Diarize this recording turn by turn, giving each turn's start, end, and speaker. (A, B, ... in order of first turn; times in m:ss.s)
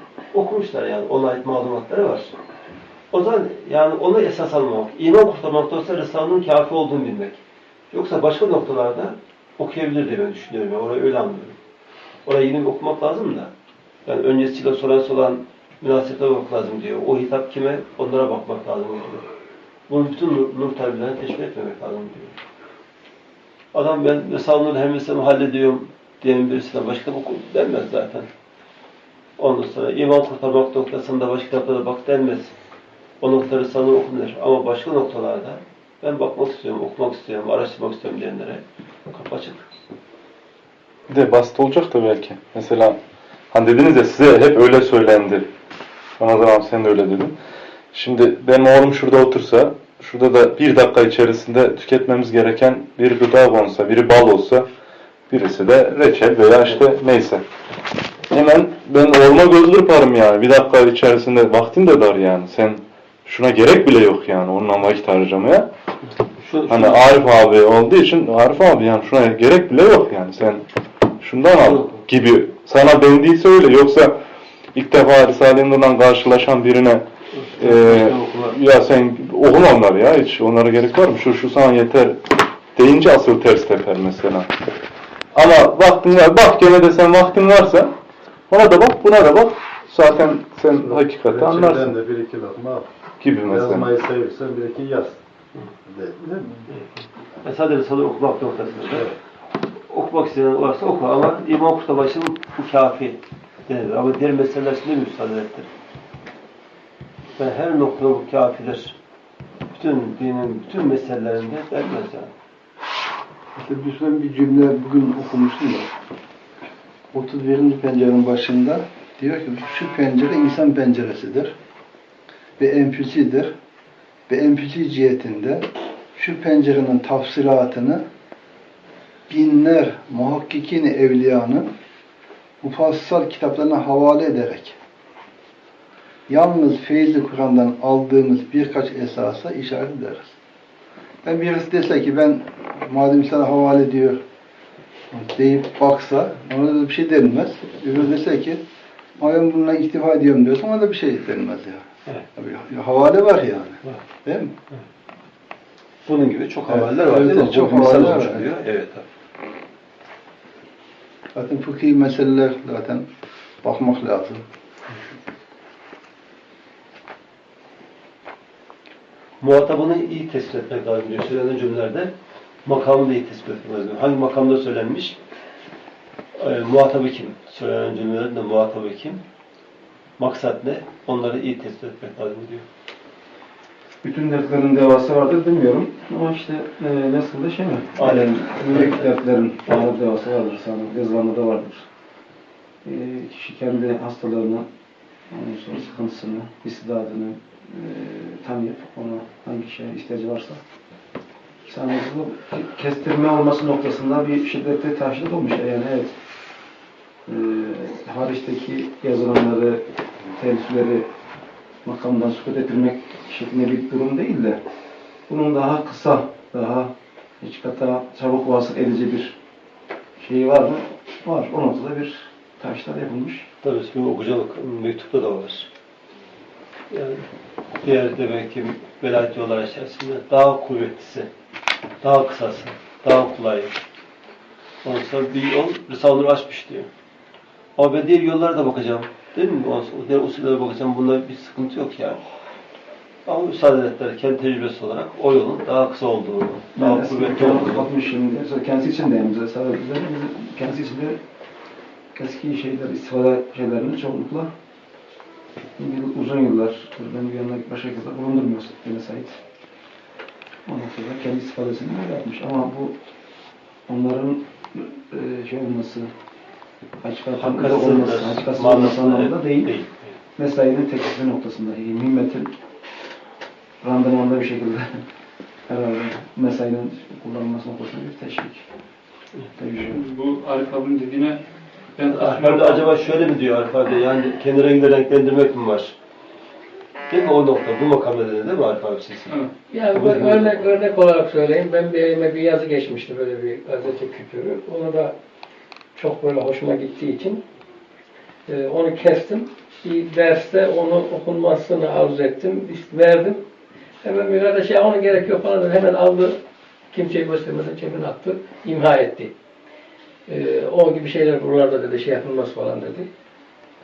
0:00.3-0:02.3 A
0:03.1-0:07.4 A
0:07.9-0:11.6 A
0:12.2-0:13.5 A
0:14.0-0:19.2 A
0:19.9-0:22.4 A
0:23.7-0:28.3 A
0:29.4-0:32.5 A
0:33.2-0:39.6 A
0:41.1-0:43.0 B
0:43.5-0:45.5 B
0:46.2-0:47.3 B
0:47.9-0:54.7 B
0:55.3-0:57.4 B
0:58.3-1:05.7 B
1:06.4-1:07.1 A
1:06.7-1:10.6 B
1:11.2-1:14.2 B
1:11.5-1:12.0 A
1:14.7-1:17.0 B
1:17.4-1:18.4 A
1:17.6-1:22.2 B
1:22.7-1:24.5 B
1:25.3-1:27.9 B
1:28.5-1:32.0 B
1:30.7-1:32.9 C
1:33.2-1:33.9 B
1:33.5-1:35.2 C
1:35.8-1:36.7 C
1:37.4-1:39.1 A
1:38.8-1:39.1 C
1:39.9-1:45.7 A
1:47.4-1:49.0 A
1:49.7-1:52.3 A
1:53.5-1:55.9 D
1:57.1-2:01.5 D
2:02.6-2:03.5 D
2:04.3-2:08.0 D
2:09.3-2:11.7 D
2:12.6-2:14.8 D
2:16.3-2:20.3 D
2:21.2-2:24.2 D
2:25.1-2:28.6 D
2:29.2-2:34.5 D
2:36.0-2:39.0 A
2:36.7-2:38.5 D
2:41.3-2:43.0 D
2:43.6-2:44.4 D
2:49.4-2:52.1 A
2:52.6-2:55.2 A
2:56.4-2:59.2 A
3:00.2-3:02.6 A
3:04.0-3:11.8 E
3:08.0-3:09.1 A
3:12.8-3:14.7 E
3:15.3-3:20.6 E
3:21.7-3:26.1 E
3:27.3-3:31.1 E
3:31.8-3:34.6 E
3:35.3-3:39.4 E
3:40.2-3:43.5 E
3:43.6-3:45.7 A
3:46.9-3:47.2 A
3:47.8-3:51.3 A
3:52.0-3:53.8 A
3:54.8-3:56.9 A
3:57.8-4:02.2 A
4:03.2-4:07.9 A
4:06.8-4:11.2 E
4:12.1-4:14.5 E
4:15.8-4:19.4 E
4:20.6-4:23.0 E
4:23.9-4:26.1 E
4:27.0-4:29.7 E
4:27.4-4:30.1 A
4:30.4-4:32.5 E
4:33.8-4:35.0 E
4:35.7-4:38.6 E
4:39.5-4:40.0 E
4:39.8-4:41.4 F
4:42.0-4:43.0 F
4:42.1-4:46.0 A
4:47.1-4:49.3 A
4:49.7-4:55.2 G
4:49.9-4:50.6 A
4:55.9-4:57.4 G
4:58.5-5:03.4 G
5:04.0-5:06.4 G
5:06.9-5:09.3 G
5:10.3-5:13.1 G